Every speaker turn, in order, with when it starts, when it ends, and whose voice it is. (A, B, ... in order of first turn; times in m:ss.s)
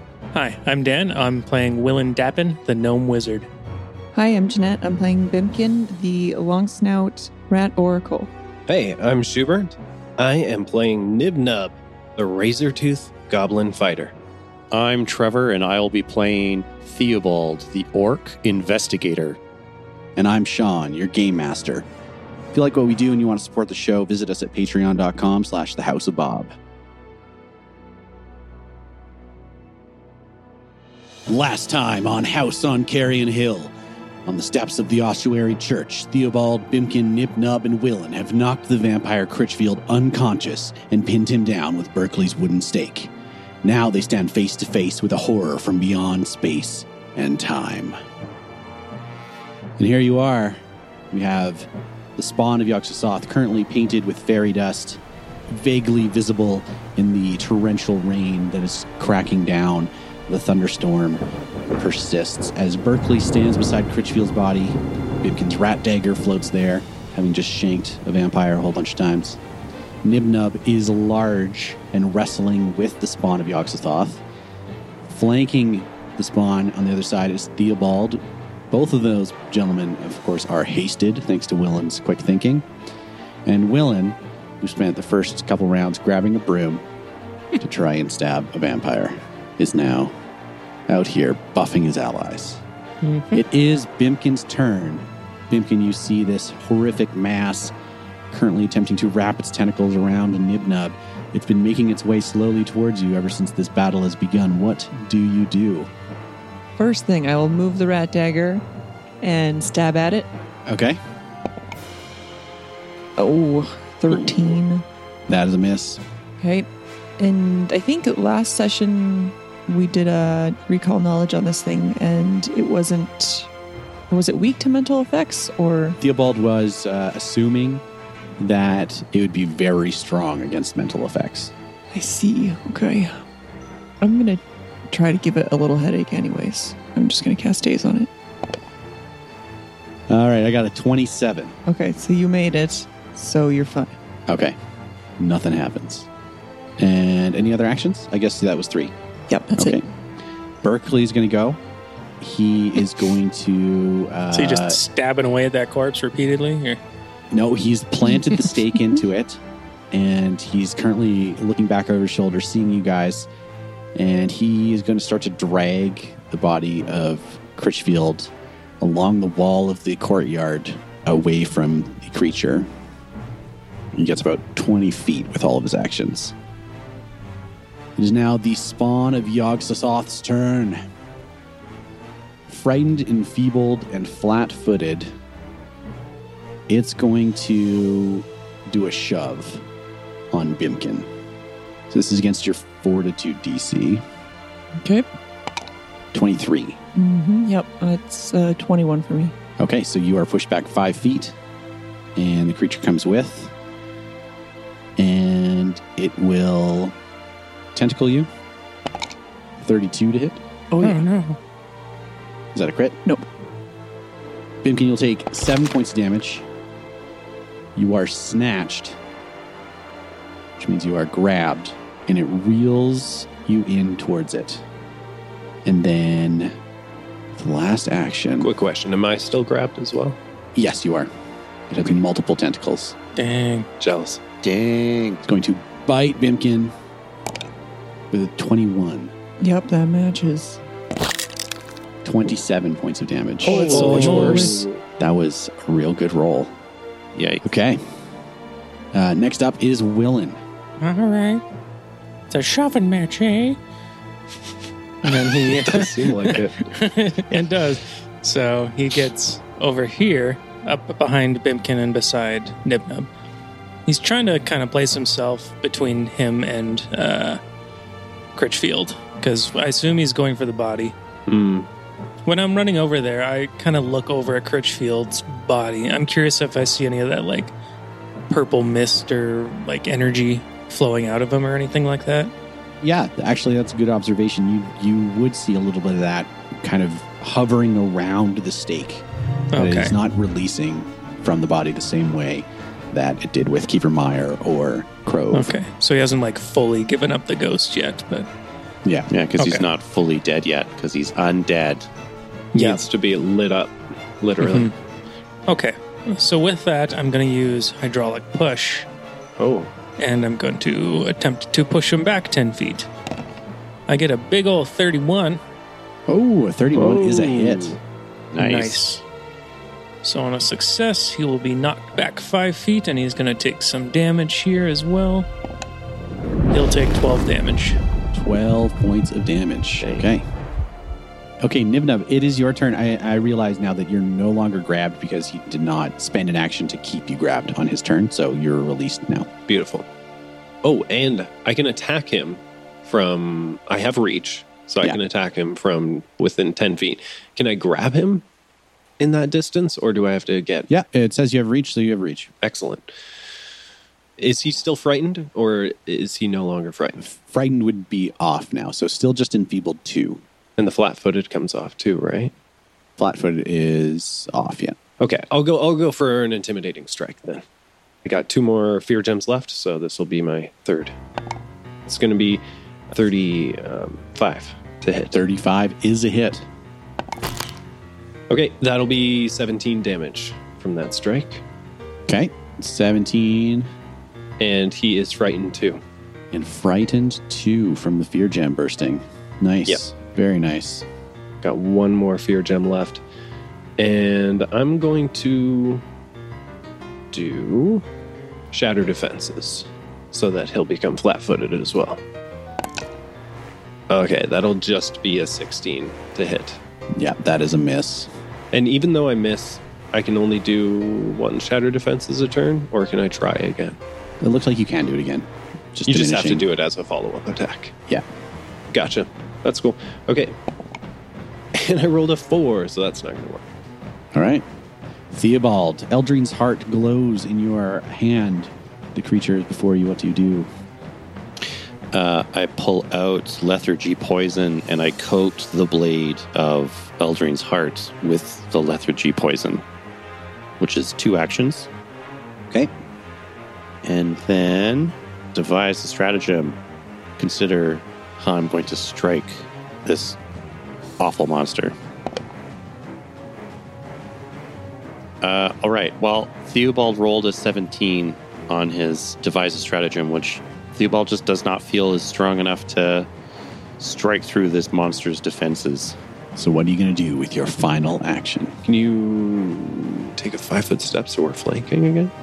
0:00.3-0:03.5 A
0:04.1-0:08.3 B
0:08.7-0:14.1 C
0:14.7-0:19.4 D
0:20.2-0:21.9 E
0:22.5-0:26.5 E
0:31.3-0:33.7 E
0:34.2-0:43.1 E
0:43.6-0:48.0 E
0:49.8-1:09.4 E
1:10.0-1:14.2 E
1:15.1-1:22.7 E
1:23.4-1:26.8 E
1:27.6-1:30.2 E
1:30.9-1:32.6 E
1:33.0-1:33.3 A
1:33.3-1:37.7 E
1:38.3-1:45.9 E
1:46.8-1:48.6 B
1:49.2-1:50.3 B
1:50.7-1:51.0 E
1:53.2-1:54.8 B
1:55.3-1:56.0 E
1:56.4-1:56.7 B
1:57.2-2:03.5 B
2:04.1-2:06.0 B
2:06.0-2:07.8 E
2:08.4-2:11.5 E
2:11.9-2:13.2 B
2:14.0-2:18.1 B
2:20.1-2:21.5 E
2:21.7-2:23.9 B
2:24.3-2:24.6 E
2:25.2-2:26.1 E
2:26.8-2:28.9 E
2:29.3-2:29.8 B
2:29.6-2:29.9 E
2:30.6-2:31.6 E
2:32.2-2:34.8 E
2:34.3-2:36.8 A
2:37.3-2:39.4 E
2:39.9-2:43.3 E
2:44.0-2:52.7 E
2:53.9-2:56.3 E
2:58.0-3:00.8 E
3:02.5-3:05.1 E
3:06.7-3:09.6 E
3:10.3-3:11.1 E
3:11.9-3:14.0 E
3:14.8-3:15.1 B
3:16.1-3:16.8 E
3:16.9-3:19.3 B
3:19.6-3:21.4 E
3:22.2-3:23.5 E
3:25.0-3:27.0 E
3:27.7-3:28.3 E
3:29.6-3:30.4 E
3:30.7-3:31.0 B
3:30.8-3:31.4 A
3:32.5-3:33.0 E
3:34.6-3:36.4 E
3:37.7-3:39.0 E
3:40.6-3:44.6 E
3:45.6-3:46.6 E
3:47.3-3:48.5 E
3:48.4-3:50.2 C
3:50.5-3:51.1 E
3:51.7-3:52.9 E
3:53.2-3:53.7 A
3:53.8-3:54.2 C
3:54.4-3:55.2 D
3:55.2-3:56.7 E
3:58.1-3:59.1 E
3:59.4-4:00.6 B
4:02.0-4:06.5 E
4:03.4-4:04.8 C
4:03.5-4:04.6 A
4:07.1-4:07.4 D
4:07.4-4:07.8 E
4:08.9-4:10.4 E
4:10.8-4:11.4 A
4:12.3-4:13.6 A
4:15.0-4:23.1 A
4:15.2-4:16.7 C
4:23.8-4:27.4 A
4:28.3-4:30.9 A
4:31.3-4:31.7 C
4:32.2-4:37.5 A
4:38.3-4:42.3 A
4:42.8-4:55.5 E
4:49.5-4:49.9 A
4:55.3-4:58.3 A
4:58.8-4:59.1 E
4:59.1-5:01.9 D
4:59.4-4:59.6 A
5:02.5-5:02.8 A
5:02.5-5:04.7 C
5:04.4-5:04.7 A
5:05.5-5:08.9 A
5:09.4-5:09.7 C
5:10.0-5:12.9 A
5:13.9-5:15.4 A
5:16.1-5:17.8 E
5:16.7-5:17.8 C
5:18.3-5:18.8 D
5:18.4-5:19.0 A
5:20.0-5:25.3 A
5:26.5-5:27.8 A
5:28.1-5:30.2 E
5:29.8-5:30.1 C
5:31.4-5:39.3 E
5:39.5-5:39.9 C
5:40.6-5:48.2 C
5:49.0-5:50.7 C
5:50.7-5:52.3 E
5:52.4-5:52.8 C
5:54.2-5:57.0 C
5:57.0-6:00.2 E
6:00.6-6:02.3 C
6:03.0-6:04.8 E
6:05.0-6:07.4 C
6:08.0-6:10.9 C
6:11.8-6:15.2 C
6:15.1-6:16.5 E
6:18.3-6:21.4 C
6:22.1-6:23.7 E
6:24.4-6:25.8 C
6:26.3-6:30.8 E
6:31.4-6:33.0 C
6:33.8-6:35.8 C
6:37.1-6:37.8 C
6:38.5-6:42.0 C
6:43.9-6:46.6 C
6:47.0-6:48.1 E
6:48.5-6:53.8 C
6:54.2-6:56.4 E
6:55.8-6:57.7 C
6:58.7-7:00.3 C
7:01.5-7:03.4 C
7:04.1-7:04.4 E
7:05.1-7:10.5 E
7:11.9-7:19.6 D
7:20.6-7:21.7 D
7:23.8-7:26.6 D
7:27.2-7:30.2 D
7:31.0-7:31.7 D
7:35.2-7:43.1 D
7:43.8-7:46.0 D
7:46.4-7:48.6 E
7:48.6-7:52.1 C